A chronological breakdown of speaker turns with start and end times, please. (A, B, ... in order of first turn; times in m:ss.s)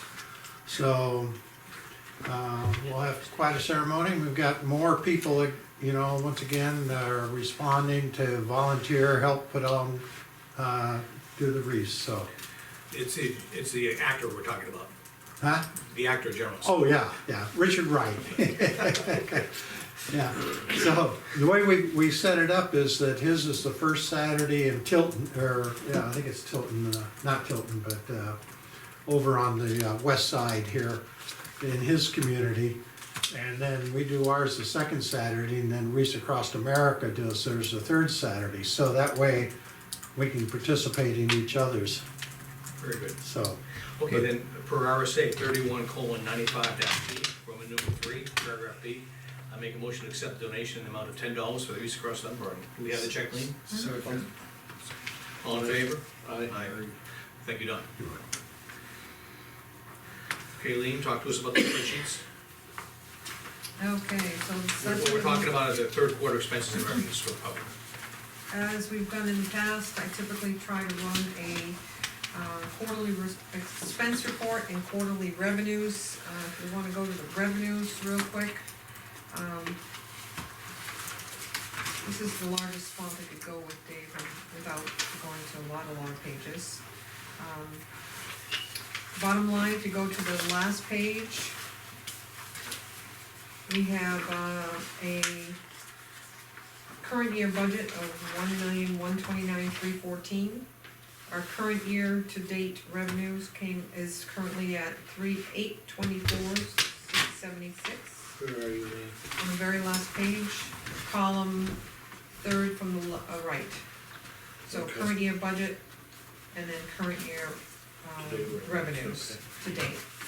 0:00.7-0:01.4 A
0:02.2-0:12.3 A
0:12.9-0:14.9 B
0:15.4-0:15.7 A
0:15.8-0:16.8 B
0:16.6-0:28.4 A
0:29.0-0:31.0 A
0:31.6-0:32.8 A
0:33.3-0:39.5 A
0:40.2-0:42.0 A
0:42.8-0:43.2 B
0:43.2-0:44.2 A
0:44.0-0:54.2 B
0:53.7-0:54.0 C
0:53.7-0:54.3 D
0:55.4-0:56.8 B
0:55.5-0:57.0 D
0:57.4-0:57.9 B
1:00.6-1:02.2 B
1:03.8-1:05.6 C
1:04.8-1:07.7 B
1:08.5-1:11.8 C
1:12.3-1:18.6 C
1:19.3-1:19.8 C
1:22.0-1:26.8 C
1:27.4-1:27.8 C
1:29.1-1:31.6 C
1:33.7-1:35.6 C
1:37.0-1:40.7 C
1:41.3-1:48.3 C
1:48.4-1:49.2 D
1:49.4-1:51.8 C
1:52.4-1:53.8 C
1:54.7-1:55.1 D
1:54.7-1:55.8 C
1:56.5-2:00.0 C
1:58.2-1:59.4 D